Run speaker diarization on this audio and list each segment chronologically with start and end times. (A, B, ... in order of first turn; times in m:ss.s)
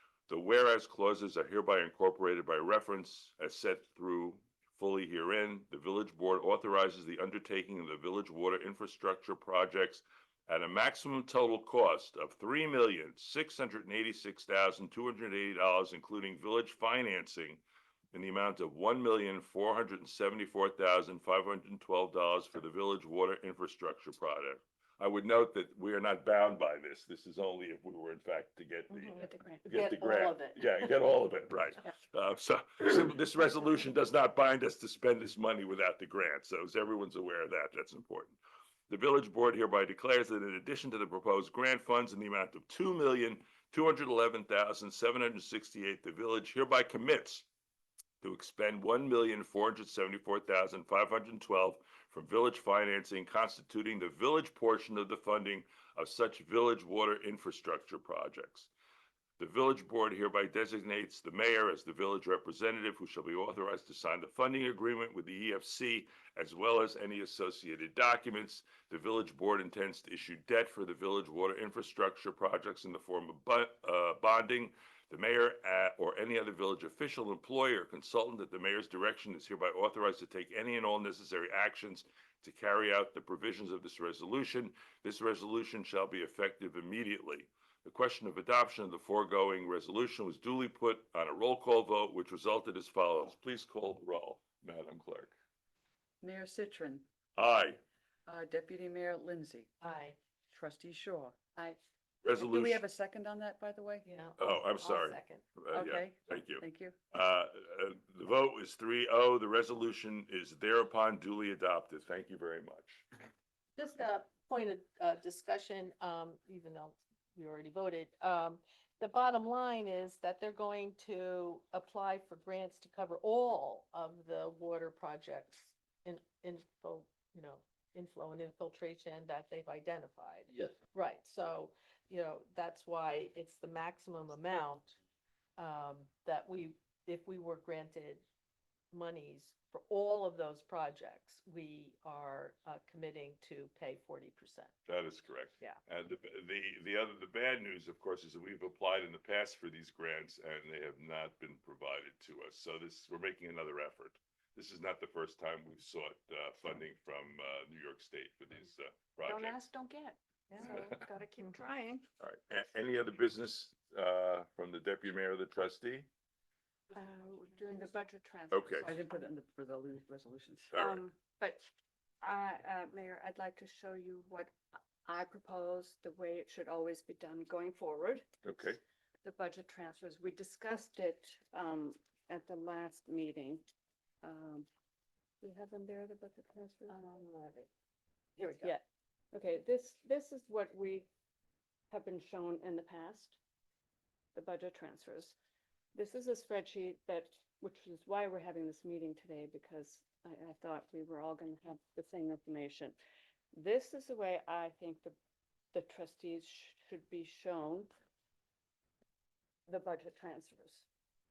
0:00.3-0:17.6 A
0:18.1-0:38.4 A
0:28.9-0:30.6 B
0:29.2-0:29.6 C
0:38.9-0:47.5 A
0:48.2-0:58.7 A
0:59.4-1:35.3 A
1:36.2-1:37.0 D
1:37.4-1:37.8 A
1:38.3-1:39.7 D
1:39.8-1:40.2 B
1:40.5-1:41.8 D
1:42.2-1:42.8 A
1:42.3-1:44.1 D
1:44.0-1:45.4 B
1:44.4-1:53.0 A
1:45.7-1:47.0 D
1:53.8-2:15.0 B
2:15.6-2:18.2 B
2:18.9-2:24.7 B
2:24.9-2:39.7 A
2:39.2-2:42.0 C
2:42.2-2:46.1 A
2:46.9-2:48.9 C
2:48.5-2:48.9 A
2:48.8-2:50.7 D
2:50.7-2:51.0 A
2:50.7-2:51.7 C
2:52.2-2:54.5 C
2:55.0-2:58.3 C
2:58.4-2:58.8 A
2:59.2-3:03.6 C
3:04.2-3:04.7 C
3:05.4-3:07.6 C
3:07.0-3:07.6 B
3:08.4-3:08.7 B
3:08.6-3:11.1 C
3:11.9-3:13.4 C
3:14.3-3:15.3 C
3:15.9-3:23.0 C
3:23.5-3:25.1 C
3:25.7-3:27.9 C
3:29.7-3:30.8 C